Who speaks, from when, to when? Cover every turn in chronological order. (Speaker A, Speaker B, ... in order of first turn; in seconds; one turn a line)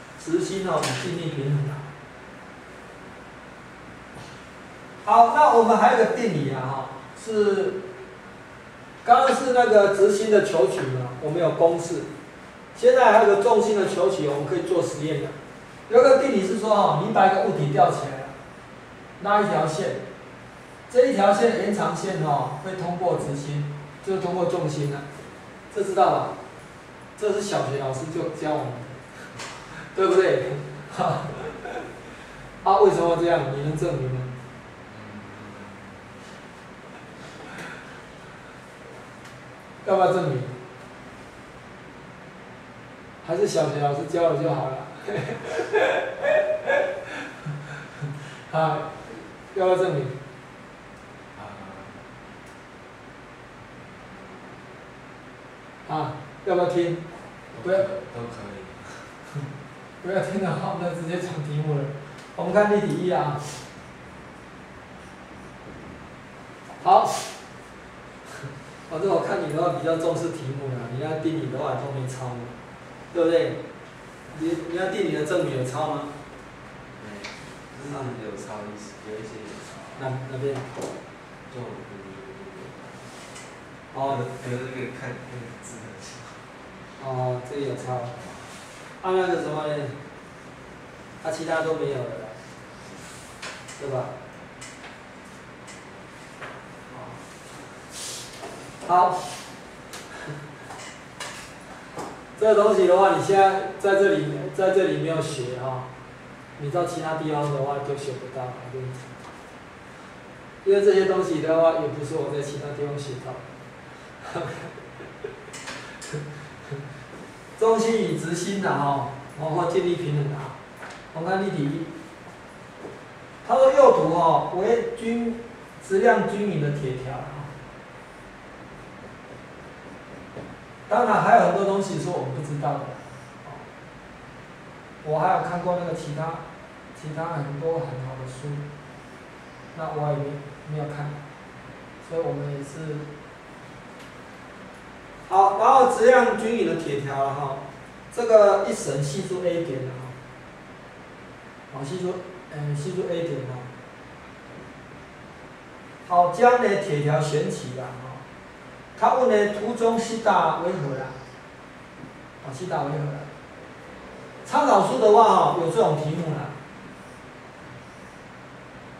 Speaker A: 0.2-1.9
Speaker A: 5.0-7.8
Speaker A: 9.0-12.1
Speaker A: 12.7-15.3
Speaker A: 15.9-18.3
Speaker A: 19.2-20.0
Speaker A: 20.9-25.1
Speaker A: 25.7-26.3
Speaker A: 27.2-31.8
Speaker A: 32.6-34.3
Speaker B: 34.9-36.1
Speaker A: 39.8-40.5
Speaker A: 43.2-46.8
Speaker A: 48.0-50.2
Speaker B: 51.3-52.0
Speaker A: 55.9-57.0
Speaker B: 57.5-59.1
Speaker A: 57.6-57.9
Speaker A: 60.0-63.5
Speaker A: 66.8-67.3
Speaker A: 68.9-72.5
Speaker A: 73.1-73.6
Speaker A: 74.3-76.1
Speaker B: 77.0-80.0
Speaker A: 80.0-80.7
Speaker B: 81.5-83.0
Speaker A: 83.9-84.2
Speaker B: 84.0-86.5
Speaker A: 87.0-88.2
Speaker A: 89.0-90.0
Speaker A: 91.2-92.3
Speaker A: 93.8-94.1
Speaker A: 96.9-97.2
Speaker A: 98.8-99.3
Speaker A: 102.3-105.9
Speaker A: 106.6-109.1
Speaker A: 110.6-113.4
Speaker A: 114.2-114.8
Speaker A: 117.6-120.5
Speaker A: 121.1-121.9
Speaker A: 123.4-127.5
Speaker A: 130.9-133.6
Speaker A: 135.0-136.4
Speaker A: 136.9-138.6
Speaker A: 139.7-141.2
Speaker A: 142.0-143.1
Speaker A: 145.3-150.2
Speaker A: 151.7-153.7
Speaker A: 156.0-158.2
Speaker A: 158.9-161.1
Speaker A: 162.4-163.3
Speaker A: 164.4-166.5